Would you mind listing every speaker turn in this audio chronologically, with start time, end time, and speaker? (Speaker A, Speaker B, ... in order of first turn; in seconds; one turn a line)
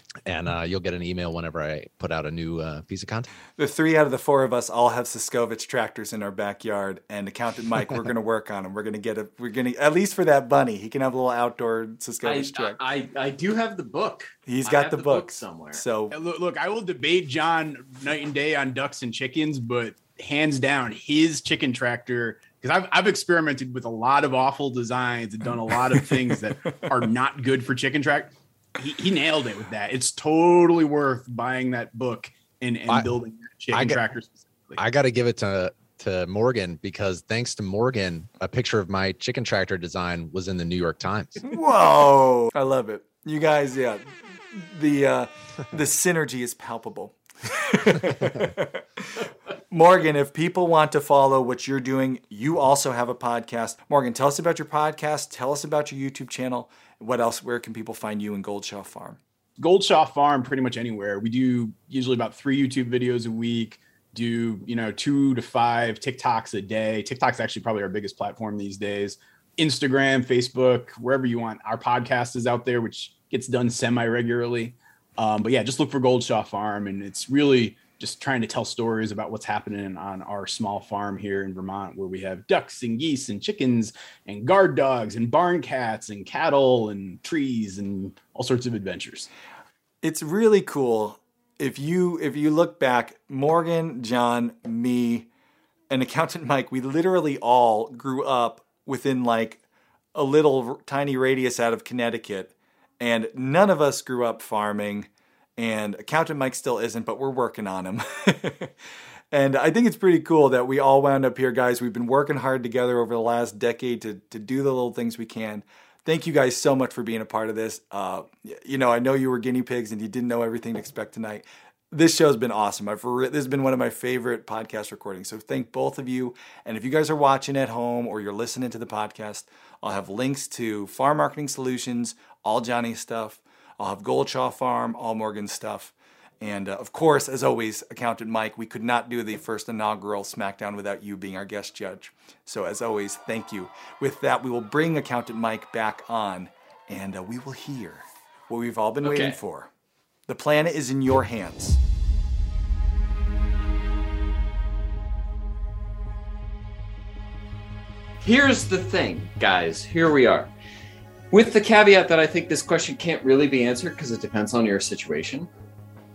Speaker A: 0.3-3.3
Speaker B: 3.6-12.8
Speaker C: 12.2-15.8
Speaker B: 14.5-16.1
Speaker D: 16.1-34.8
Speaker B: 26.0-26.4
Speaker A: 33.7-34.0
Speaker A: 34.8-41.4
Speaker B: 41.4-59.2
Speaker D: 59.6-89.3
Speaker B: 90.0-95.3
Speaker B: 95.9-99.6
Speaker B: 100.1-108.7
Speaker B: 109.3-149.7
Speaker C: 149.0-149.4
Speaker B: 150.3-151.8
Speaker C: 158.2-160.5
Speaker C: 161.3-165.5